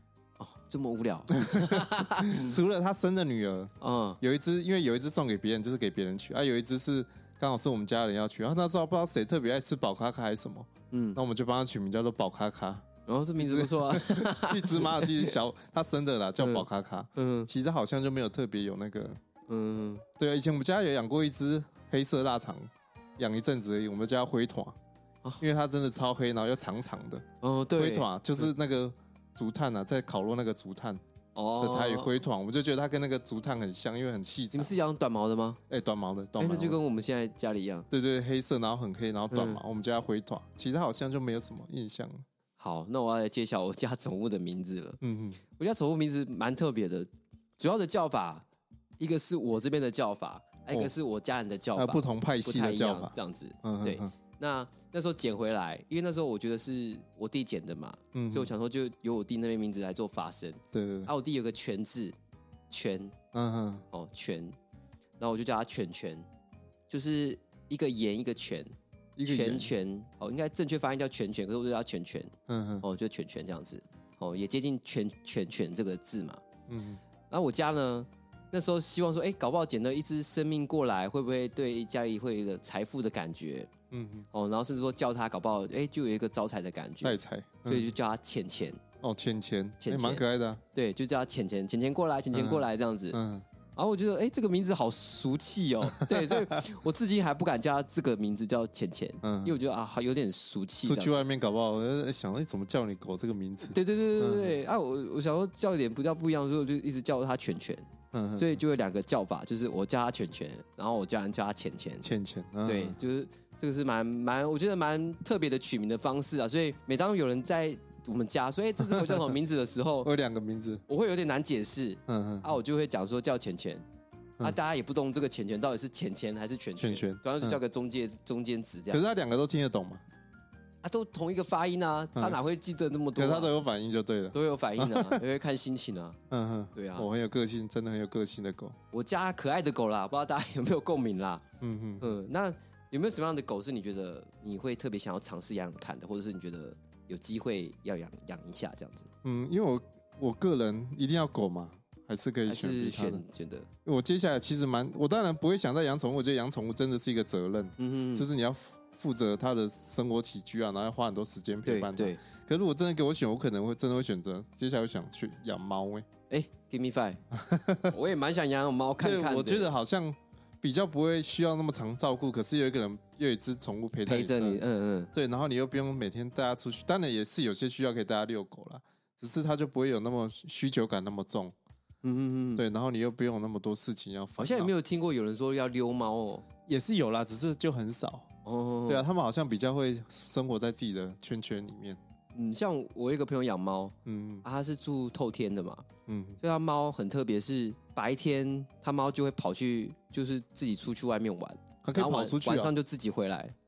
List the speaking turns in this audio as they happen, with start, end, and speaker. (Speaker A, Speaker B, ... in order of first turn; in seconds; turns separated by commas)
Speaker A: 0.4-2.6, Speaker B: 1.3-12.9, Speaker A: 3.8-4.2, Speaker A: 10.9-11.2, Speaker A: 13.1-15.4, Speaker B: 13.4-19.2, Speaker A: 16.4-16.6, Speaker A: 17.1-17.5, Speaker A: 19.5-20.0, Speaker B: 20.2-24.8, Speaker B: 25.4-27.2, Speaker A: 27.4-28.5, Speaker B: 27.8-31.0, Speaker A: 31.3-32.1, Speaker B: 31.6-34.8, Speaker A: 34.5-35.6, Speaker B: 35.7-36.8, Speaker A: 36.4-37.9, Speaker B: 37.9-42.2, Speaker A: 39.3-39.6, Speaker A: 42.6-45.0, Speaker B: 45.0-45.4, Speaker A: 45.5-48.4, Speaker A: 49.0-62.1, Speaker B: 51.8-54.1, Speaker B: 58.1-58.5, Speaker B: 60.7-61.1, Speaker A: 62.7-63.1, Speaker B: 63.3-63.9, Speaker A: 63.9-64.6, Speaker A: 65.2-66.2, Speaker A: 66.9-68.7, Speaker B: 69.2-69.7, Speaker A: 69.2-76.4, Speaker B: 72.5-72.9, Speaker B: 76.7-77.0, Speaker A: 77.3-83.7, Speaker B: 83.9-84.3, Speaker A: 84.3-88.8, Speaker B: 87.0-87.9, Speaker B: 89.0-90.6, Speaker A: 89.8-93.2, Speaker B: 92.3-93.4, Speaker A: 93.7-101.1, Speaker B: 95.9-96.6, Speaker B: 99.2-99.6, Speaker B: 100.8-104.6, Speaker A: 103.7-107.8, Speaker B: 108.1-108.6, Speaker A: 108.4-112.1, Speaker B: 112.0-113.0, Speaker A: 112.6-120.1, Speaker B: 118.9-119.2, Speaker B: 120.0-120.8, Speaker A: 120.9-123.8, Speaker B: 122.1-122.5, Speaker A: 124.4-129.1, Speaker B: 126.8-127.6, Speaker B: 128.9-130.0, Speaker A: 130.8-133.5, Speaker B: 132.1-132.5, Speaker B: 133.2-135.2, Speaker A: 134.3-136.2, Speaker B: 136.3-138.8, Speaker A: 136.7-137.1, Speaker A: 138.9-141.4, Speaker B: 141.6-142.1, Speaker A: 142.0-149.1, Speaker B: 149.2-153.2, Speaker A: 152.4-153.7, Speaker B: 153.8-166.1, Speaker A: 157.8-158.3, Speaker A: 161.6-162.2, Speaker A: 166.3-167.2, Speaker B: 167.3-167.9, Speaker A: 167.9-169.7, Speaker B: 169.0-174.6, Speaker A: 174.1-175.1, Speaker B: 175.1-181.5, Speaker A: 182.0-182.6, Speaker B: 182.6-184.7, Speaker A: 184.4-186.4, Speaker B: 186.7-188.3, Speaker A: 188.4-189.1, Speaker B: 188.9-192.0, Speaker A: 192.3-195.8, Speaker B: 194.0-194.4, Speaker B: 196.1-196.4, Speaker A: 196.4-203.5, Speaker B: 201.8-202.7